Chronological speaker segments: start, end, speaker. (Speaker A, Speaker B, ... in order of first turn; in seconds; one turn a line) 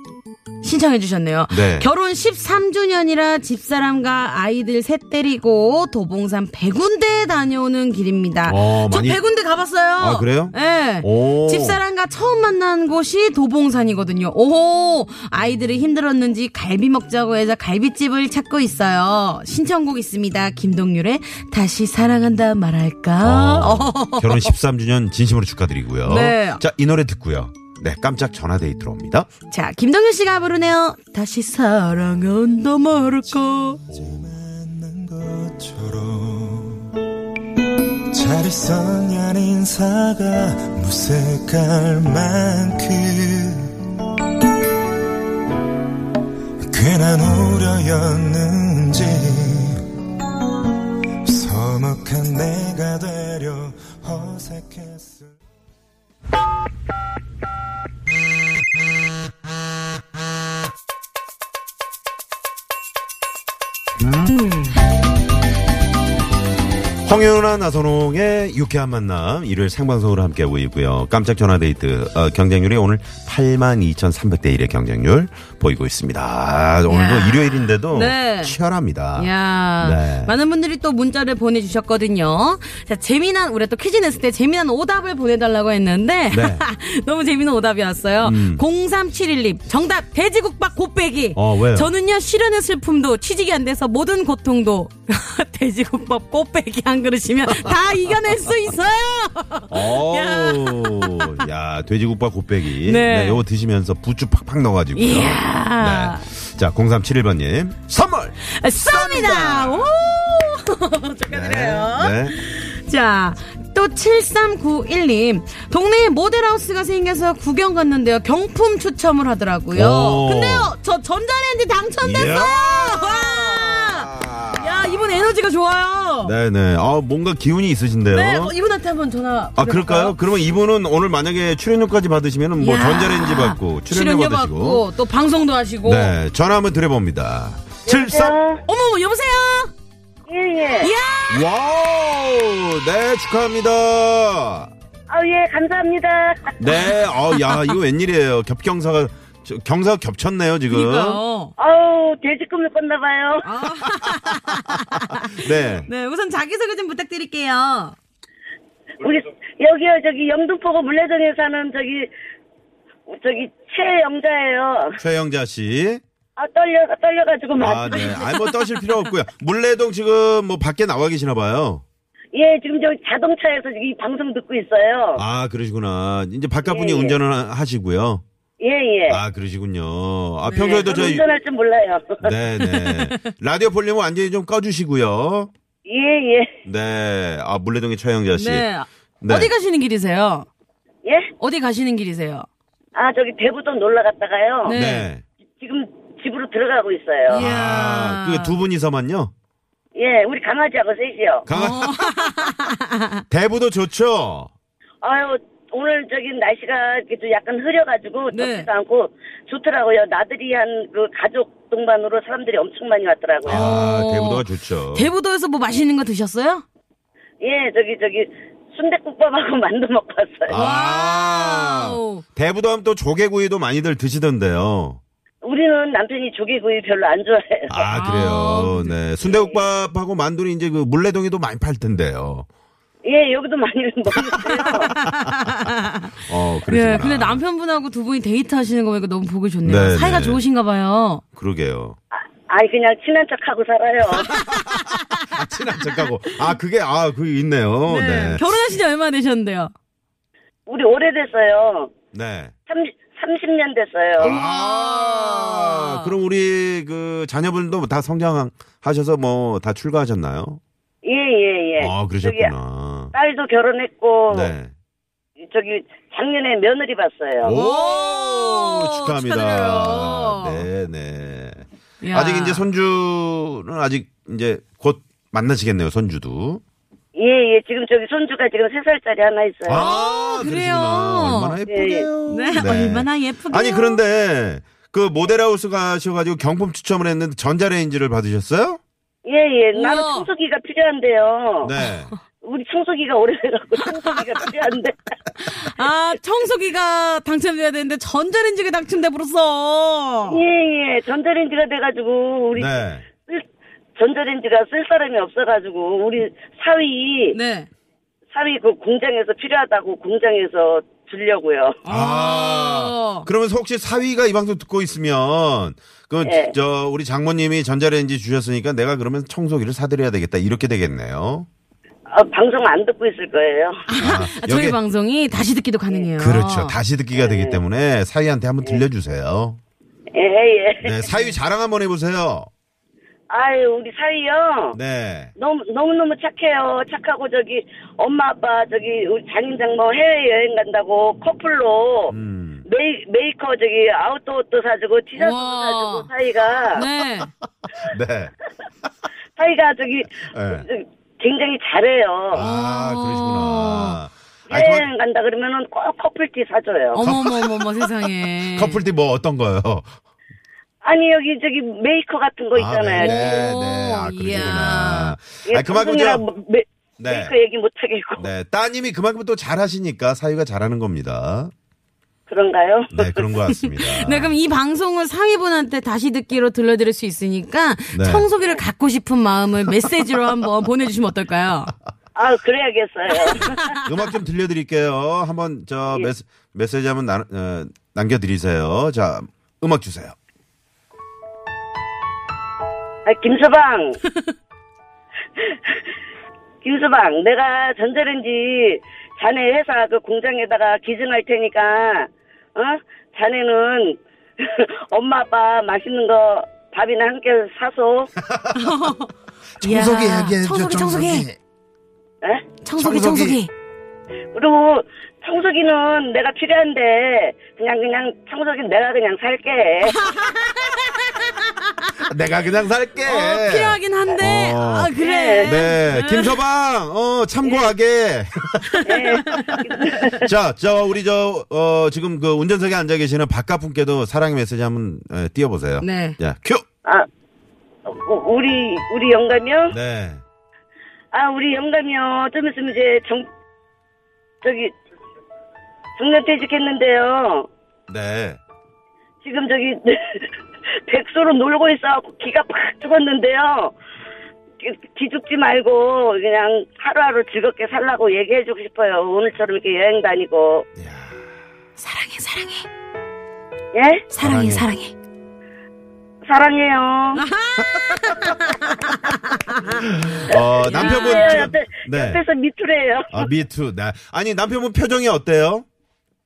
Speaker A: 0.6-24.5
Speaker B: 1.5-1.9
Speaker B: 8.4-9.2
Speaker B: 10.0-11.8
Speaker B: 23.2-29.3
Speaker A: 26.0-26.6
Speaker A: 29.5-33.8
Speaker B: 33.9-34.3
Speaker C: 33.9-37.0
Speaker C: 38.1-43.8
Speaker C: 46.6-49.9
Speaker C: 51.2-55.3
Speaker A: 64.3-64.8
Speaker B: 67.0-80.3
Speaker A: 76.9-78.6
Speaker A: 79.2-101.3
Speaker B: 86.3-86.6
Speaker B: 88.2-88.6
Speaker B: 91.3-91.9
Speaker B: 97.5-97.8
Speaker B: 99.7-109.9
Speaker A: 102.8-103.4
Speaker A: 104.9-106.2
Speaker A: 108.4-126.3
Speaker B: 111.3-112.3
Speaker B: 119.7-120.7
Speaker B: 122.0-125.3
Speaker B: 126.2-128.5
Speaker A: 128.1-130.2
Speaker B: 129.6-134.8
Speaker A: 132.6-136.1
Speaker B: 135.8-138.3
Speaker D: 137.8-138.6
Speaker A: 138.7-139.7
Speaker D: 140.3-140.9
Speaker A: 140.8-141.4
Speaker B: 141.3-144.7
Speaker D: 145.1-146.6
Speaker B: 146.6-151.2
Speaker A: 147.3-147.7
Speaker A: 150.7-151.5
Speaker D: 151.6-153.4
Speaker A: 153.4-157.9
Speaker B: 154.3-154.6
Speaker B: 155.3-155.9
Speaker D: 159.0-162.1
Speaker D: 163.1-165.0
Speaker B: 165.0-166.0
Speaker D: 166.4-168.3
Speaker B: 167.6-171.8
Speaker A: 167.9-168.9
Speaker D: 172.3-175.2
Speaker B: 175.2-178.2
Speaker D: 176.6-177.2
Speaker D: 178.6-179.2
Speaker B: 179.1-181.2
Speaker A: 180.5-181.1
Speaker D: 180.6-182.3
Speaker B: 182.2-185.5
Speaker A: 182.6-183.1
Speaker D: 185.8-186.5
Speaker B: 186.6-188.7
Speaker A: 188.3-190.5
Speaker B: 189.2-189.5
Speaker A: 191.4-192.5
Speaker D: 192.9-194.8
Speaker A: 194.6-195.1
Speaker B: 194.7-195.2
Speaker D: 195.6-197.4
Speaker A: 197.3-198.6
Speaker B: 197.3-199.3
Speaker D: 199.9-201.5
Speaker B: 201.4-202.5
Speaker A: 201.5-203.2
Speaker B: 203.3-204.5
Speaker D: 205.0-213.6
Speaker A: 208.3-208.7
Speaker B: 213.4-215.1
Speaker A: 213.5-216.6
Speaker D: 217.4-220.6
Speaker B: 220.5-225.0
Speaker A: 220.5-222.2
Speaker D: 225.4-227.9
Speaker B: 227.7-232.5
Speaker A: 227.9-229.0
Speaker D: 229.2-229.6
Speaker D: 233.0-234.9
Speaker B: 234.6-237.4
Speaker A: 234.9-241.2
Speaker B: 239.6-240.4
Speaker B: 241.3-242.0
Speaker D: 242.2-244.4
Speaker B: 244.2-248.4
Speaker A: 244.3-245.4
Speaker A: 247.8-249.7
Speaker D: 250.7-251.9
Speaker B: 252.1-252.5
Speaker D: 252.7-254.4
Speaker B: 254.2-260.6
Speaker A: 254.2-256.1
Speaker D: 261.0-262.5
Speaker B: 261.8-263.1
Speaker D: 263.1-264.5
Speaker B: 264.3-264.7
Speaker D: 265.4-267.5
Speaker B: 267.4-276.6
Speaker A: 267.5-270.6
Speaker A: 272.0-272.6
Speaker D: 277.1-279.9
Speaker B: 279.6-288.8
Speaker A: 279.7-281.6
Speaker D: 281.7-282.1
Speaker A: 282.2-284.0
Speaker D: 289.2-291.7
Speaker A: 289.7-290.3
Speaker B: 291.6-292.1
Speaker D: 292.4-294.9
Speaker A: 295.4-300.4
Speaker D: 300.3-303.4
Speaker B: 302.6-303.1
Speaker D: 304.0-307.4
Speaker A: 307.3-307.7
Speaker D: 308.3-311.8
Speaker A: 311.8-313.3
Speaker B: 311.9-321.5
Speaker D: 316.2-316.5
Speaker D: 322.1-323.8
Speaker A: 323.9-326.8
Speaker B: 324.0-324.8
Speaker B: 326.1-329.6
Speaker D: 327.1-327.6
Speaker D: 330.1-331.1
Speaker B: 330.8-332.5
Speaker D: 333.3-334.8
Speaker B: 334.7-335.3
Speaker D: 335.4-346.8
Speaker B: 342.1-342.6
Speaker A: 345.1-346.1
Speaker A: 346.7-347.3
Speaker B: 347.8-348.3
Speaker D: 349.4-352.4
Speaker B: 350.3-350.6
Speaker B: 352.3-354.9
Speaker A: 352.3-354.0
Speaker D: 354.5-357.0
Speaker A: 356.9-358.8
Speaker B: 357.0-359.9
Speaker D: 360.8-363.5
Speaker B: 362.5-366.2
Speaker A: 363.0-365.1
Speaker D: 365.4-368.3
Speaker B: 367.0-367.3
Speaker B: 368.2-371.5
Speaker D: 372.3-373.2
Speaker B: 372.9-374.3
Speaker A: 373.5-381.7
Speaker B: 377.9-378.3
Speaker D: 382.1-383.6
Speaker A: 383.3-383.7
Speaker B: 383.4-390.1
Speaker D: 393.1-394.0
Speaker D: 395.4-395.8
Speaker D: 396.6-408.1
Speaker B: 408.3-408.8
Speaker A: 408.5-411.3
Speaker B: 409.6-411.4
Speaker D: 412.2-412.5
Speaker A: 412.6-413.5
Speaker B: 412.8-413.4
Speaker D: 414.3-420.0
Speaker A: 419.9-421.9
Speaker B: 422.0-436.6
Speaker A: 423.0-426.3
Speaker D: 424.9-425.6
Speaker D: 427.4-427.7
Speaker A: 428.6-429.6
Speaker D: 428.9-430.2
Speaker A: 435.8-436.2
Speaker D: 437.9-439.8
Speaker B: 439.7-440.2
Speaker D: 441.1-443.2
Speaker D: 444.4-444.7
Speaker D: 446.0-447.5
Speaker B: 447.9-448.4
Speaker D: 449.2-450.4
Speaker D: 450.9-453.7
Speaker D: 454.6-460.6
Speaker B: 460.8-461.2
Speaker A: 461.8-462.6
Speaker D: 463.7-464.1
Speaker A: 464.1-464.9
Speaker B: 464.2-464.7
Speaker D: 466.3-467.2
Speaker A: 467.2-469.8
Speaker B: 467.7-468.2
Speaker B: 469.7-472.2
Speaker D: 470.3-473.3
Speaker A: 470.6-471.5
Speaker B: 473.1-475.6